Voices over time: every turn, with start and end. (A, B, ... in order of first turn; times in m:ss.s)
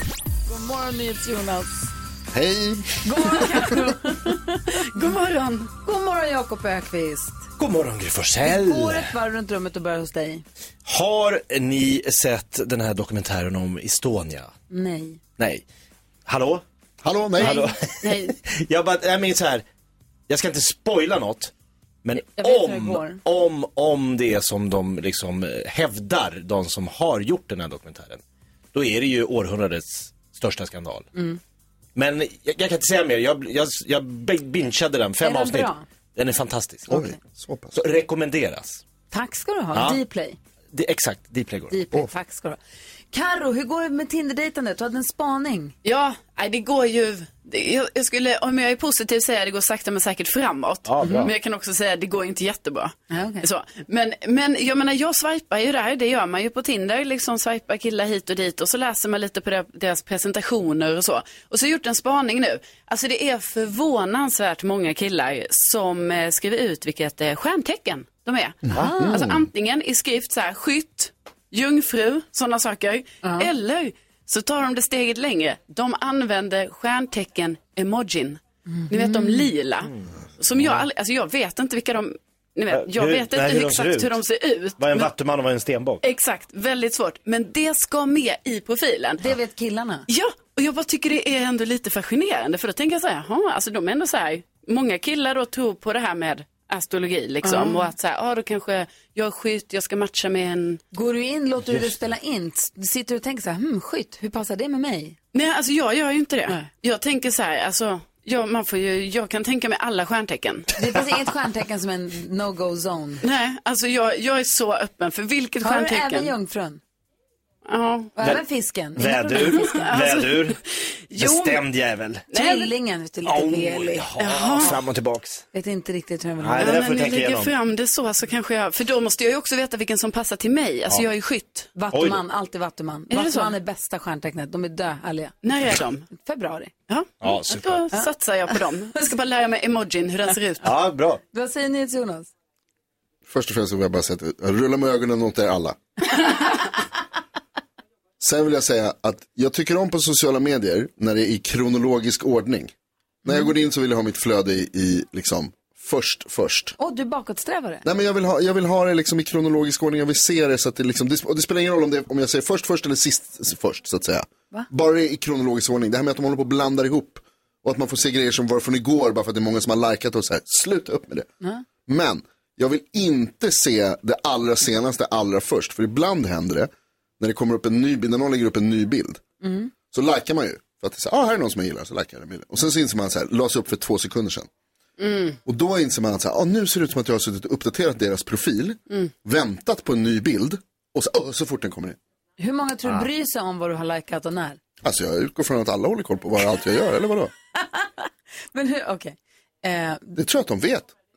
0:00.5-0:01.9 A
0:02.3-0:03.7 B
0:03.0-0:04.8 A
0:04.8-0:05.7 C
0:05.8-0:07.4 A
0:07.6-0:09.1 D
0:08.4-0:10.4 A
0:10.8-0:14.5 D
0:14.7-0:15.2 A
0:15.4-0:15.6 D
0:16.2-0:16.6 D
0:17.0-0:17.6 B
0:17.4-0:18.3 C
0:17.4-0:19.6 D
0:20.3-0:21.5 D
0:22.0-0:28.2 D
0:22.1-0:23.2 A
0:28.7-0:31.1 D
0:31.1-0:31.4 A
0:31.9-0:37.0 D
0:35.2-0:35.8 A
0:36.9-0:37.7 B
0:37.7-0:38.8 D
0:39.1-0:40.4 A
0:39.7-0:40.0 D
0:40.7-0:42.0 D
0:41.7-0:42.6 A
0:43.1-0:45.7 A
0:45.8-1:25.1 C
0:50.8-0:51.3 D
0:51.0-0:51.3 A
0:53.1-0:53.4 A
1:08.7-1:09.4 B
1:08.7-1:09.2 A
1:13.2-1:13.5 A
1:18.7-1:19.5 A
1:20.6-1:20.8 D
1:22.7-1:24.2 D
1:24.8-1:26.0 D
1:26.0-1:29.3 C
1:29.2-1:30.0 A
1:30.1-1:40.8 C
1:37.4-1:37.9 A
1:40.9-1:45.2 A
1:45.3-1:50.7 C
1:50.7-1:53.2 A
1:53.2-1:56.3 C
1:55.6-1:56.8 A
1:57.6-1:58.3 C
1:58.2-1:59.9 A
1:59.0-2:00.6 D
1:59.3-2:01.6 C
2:01.1-2:02.3 D
2:02.3-2:02.7 C
2:02.3-2:04.1 A
2:03.2-2:05.4 D
2:04.2-2:04.8 C
2:05.5-2:07.0 A
2:06.4-2:07.5 D
2:06.6-2:11.7 C
2:11.8-2:15.4 A
2:11.9-2:12.2 D
2:13.1-2:13.5 C
2:15.4-2:16.1 C
2:16.1-2:16.7 A
2:16.9-2:20.7 C
2:17.2-2:17.8 D
2:20.6-2:21.2 D
2:21.3-2:22.3 A
2:23.3-2:25.8 B
2:28.2-2:32.7 B
2:33.2-2:36.7 B
2:36.8-2:37.8 A
2:37.8-2:51.3 B
2:51.9-2:59.2 B
2:59.4-2:59.7 A
2:59.9-3:04.5 B
3:05.0-3:05.4 C
3:05.4-3:12.0 B
3:12.4-3:14.6 A
3:14.8-3:17.3 B
3:17.5-3:20.2 A
3:20.2-3:20.9 B